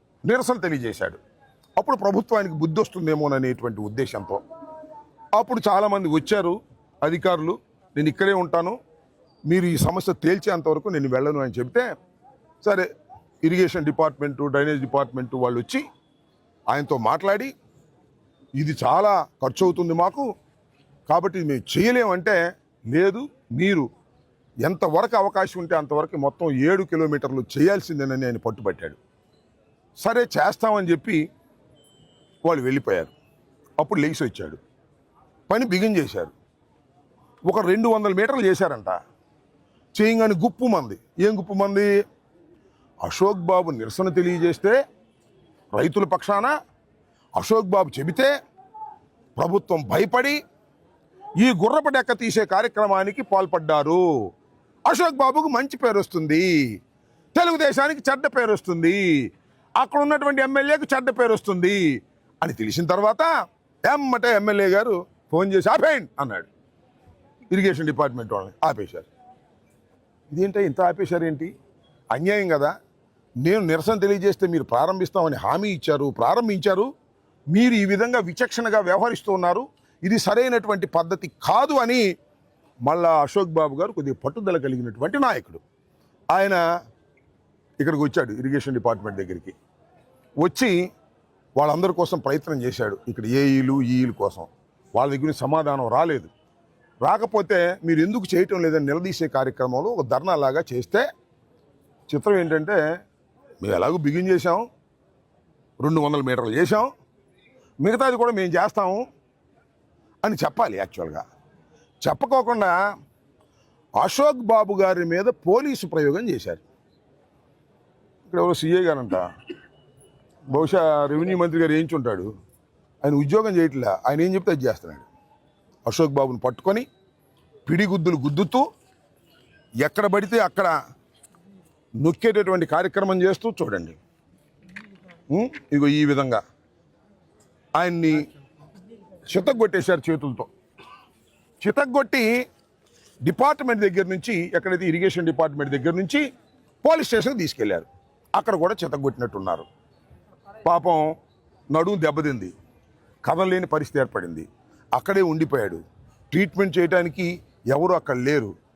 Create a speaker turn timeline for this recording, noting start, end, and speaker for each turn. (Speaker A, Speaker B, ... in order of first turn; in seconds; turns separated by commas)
Speaker A: 0.3-1.2, Speaker A: 1.8-4.4, Speaker A: 5.4-8.8, Speaker A: 9.5-11.9, Speaker A: 13.4-15.9, Speaker A: 16.7-17.5, Speaker A: 18.6-20.3, Speaker A: 21.1-22.4, Speaker A: 22.9-23.9, Speaker A: 24.7-29.0, Speaker A: 30.0-31.2, Speaker A: 32.4-33.1, Speaker A: 33.8-34.6, Speaker A: 35.5-36.3, Speaker A: 37.5-39.0, Speaker A: 40.0-41.9, Speaker A: 43.0-44.8, Speaker A: 45.8-46.5, Speaker A: 47.4-48.3, Speaker A: 49.4-50.4, Speaker A: 51.4-54.0, Speaker A: 54.9-56.6, Speaker A: 57.3-59.2, Speaker A: 59.8-61.8, Speaker A: 62.4-63.3, Speaker A: 63.9-66.5, Speaker A: 67.5-69.1, Speaker A: 70.3-71.5, Speaker A: 72.1-72.7, Speaker A: 73.4-76.9, Speaker A: 77.5-82.0, Speaker A: 82.9-85.6, Speaker A: 86.3-86.6, Speaker A: 87.8-89.6, Speaker A: 90.4-90.8, Speaker A: 91.6-96.3, Speaker A: 97.0-101.1, Speaker A: 102.1-102.8, Speaker A: 103.6-104.7, Speaker A: 105.8-106.9, Speaker A: 107.8-109.0, Speaker A: 110.2-111.2, Speaker A: 112.0-112.8, Speaker A: 114.0-116.6, Speaker A: 118.2-119.3, Speaker A: 120.5-122.3, Speaker A: 123.0-125.1, Speaker A: 125.9-126.9, Speaker A: 127.7-128.7, Speaker A: 129.8-130.7, Speaker A: 132.0-134.0, Speaker A: 135.3-136.4, Speaker A: 137.8-138.3, Speaker A: 139.3-140.5, Speaker A: 141.6-142.3, Speaker A: 143.2-146.2, Speaker A: 146.8-149.7, Speaker A: 150.7-151.1, Speaker A: 151.7-152.5, Speaker A: 153.2-158.5